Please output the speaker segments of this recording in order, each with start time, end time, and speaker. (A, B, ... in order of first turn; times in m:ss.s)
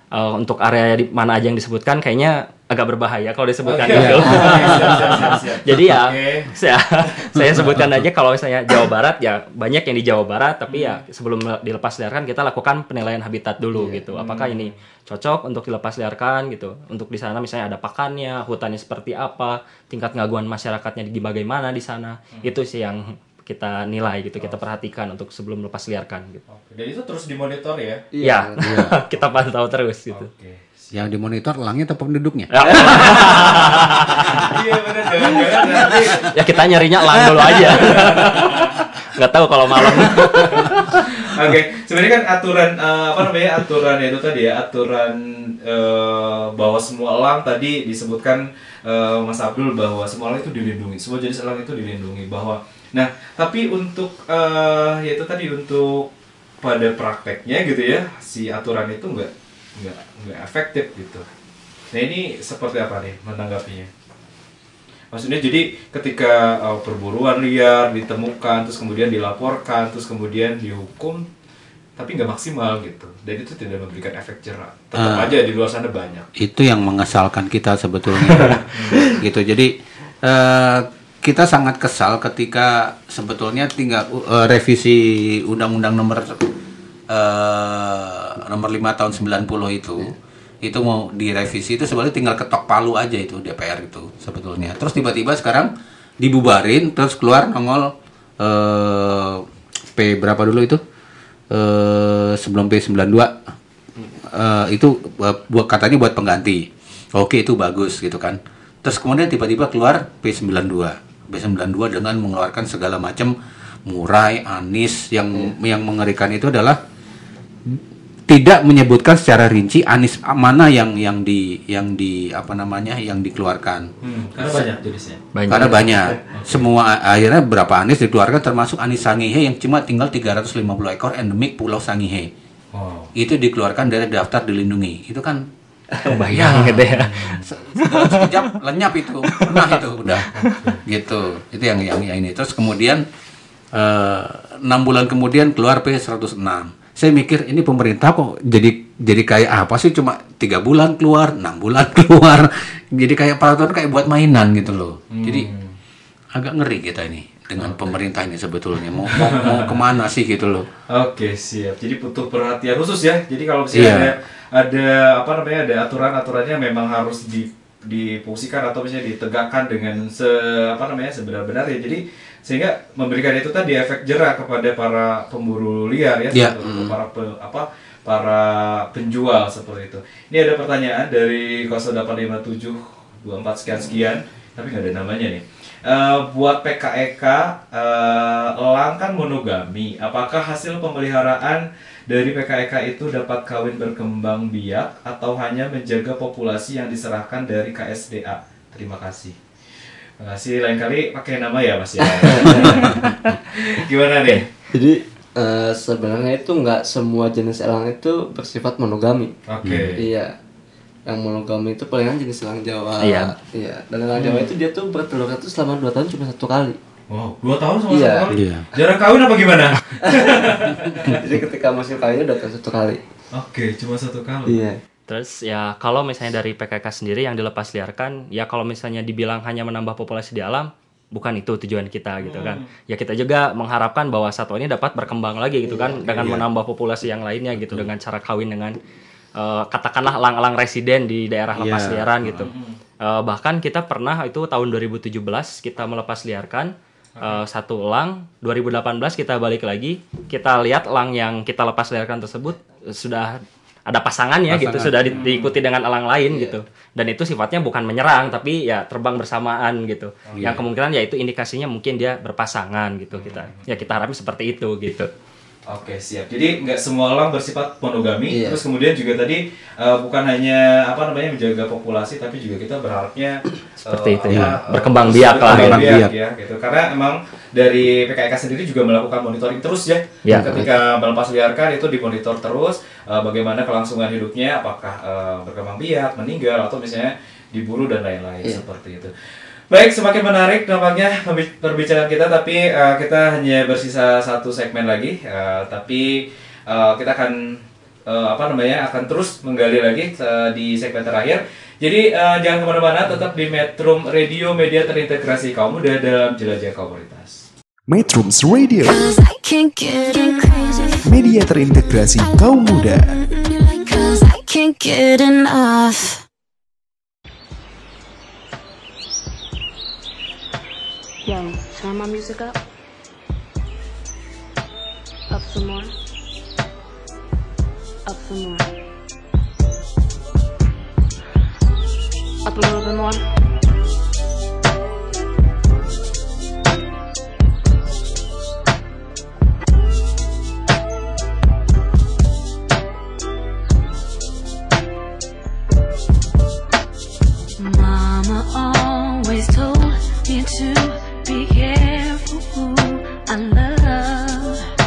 0:00.2-0:26.4 A
0:03.7-0:06.5 B
0:03.9-0:05.0 C
0:10.7-0:11.0 B
0:14.1-0:14.8 B
0:26.5-0:28.1 B
0:28.1-0:28.6 D
0:28.2-0:30.3 A
0:28.6-0:29.0 C
0:30.1-0:31.1 B
0:30.9-0:33.7 C
0:32.5-0:34.4 A
0:32.8-0:38.8 B
0:36.3-0:38.6 A
0:39.2-0:41.0 A
0:39.8-0:56.1 B
0:56.6-1:01.2 B
1:01.9-1:03.9 B
1:05.1-1:11.3 B
1:12.0-1:16.3 B
1:15.0-1:15.3 C
1:16.4-1:19.7 C
1:18.7-1:19.1 B
1:20.2-1:26.4 C
1:27.1-1:35.7 C
1:36.2-1:39.4 C
1:40.0-1:40.8 C
1:41.5-1:43.4 C
1:44.0-1:53.3 C
1:53.9-1:56.8 C
1:57.7-2:04.7 C
2:04.0-2:05.2 B
2:05.4-2:05.8 A
2:05.5-2:12.3 C
2:06.3-2:06.7 B
2:12.7-2:13.1 B
2:13.2-2:15.5 C
2:16.0-2:17.2 A
2:16.2-2:20.3 C
2:17.0-2:17.4 B
2:17.9-2:18.3 A
2:20.4-2:20.8 B
2:20.9-2:23.0 C
2:23.7-2:35.5 C
2:35.1-2:35.7 B
2:36.4-2:40.7 C
2:37.6-2:37.9 B
2:39.1-2:39.8 B
2:40.9-3:19.4 B
2:43.7-2:44.1 C
2:56.3-2:57.0 C
3:20.2-3:23.0 B
3:23.6-3:24.5 B
3:24.7-3:29.3 D
3:29.5-3:30.0 B
3:29.6-3:30.0 C
3:30.0-3:30.3 D
3:31.1-3:36.8 D
3:33.0-3:33.3 A
3:34.2-3:34.5 B
3:37.1-3:41.2 B
3:37.9-3:38.2 D
3:38.3-3:38.7 C
3:41.1-3:43.0 D
3:43.3-3:44.6 B
3:44.5-3:44.8 D
3:45.1-3:58.8 A
3:52.2-3:52.7 B
3:55.7-3:56.0 D
3:56.2-3:56.5 C
3:57.6-3:57.9 C
3:59.4-4:25.1 A
4:01.5-4:02.5 C
4:02.4-4:02.8 B
4:07.2-4:07.4 B
4:14.5-4:15.3 C
4:15.1-4:15.6 B
4:16.3-4:16.6 D
4:20.3-4:20.6 B
4:23.1-4:23.9 B
4:25.7-4:49.1 B
4:28.3-4:28.6 D
4:33.9-4:36.0 A
4:34.3-4:34.6 C
4:35.4-4:36.1 C
4:40.2-4:40.6 A
4:49.7-5:07.4 B
5:07.9-5:09.0 E
5:08.8-5:11.0 F
5:11.0-5:13.1 E
5:13.2-5:16.2 F
5:21.2-5:22.6 G
5:25.3-5:25.9 G
5:28.1-5:28.7 G
5:32.5-5:33.2 G
5:47.6-5:54.5 F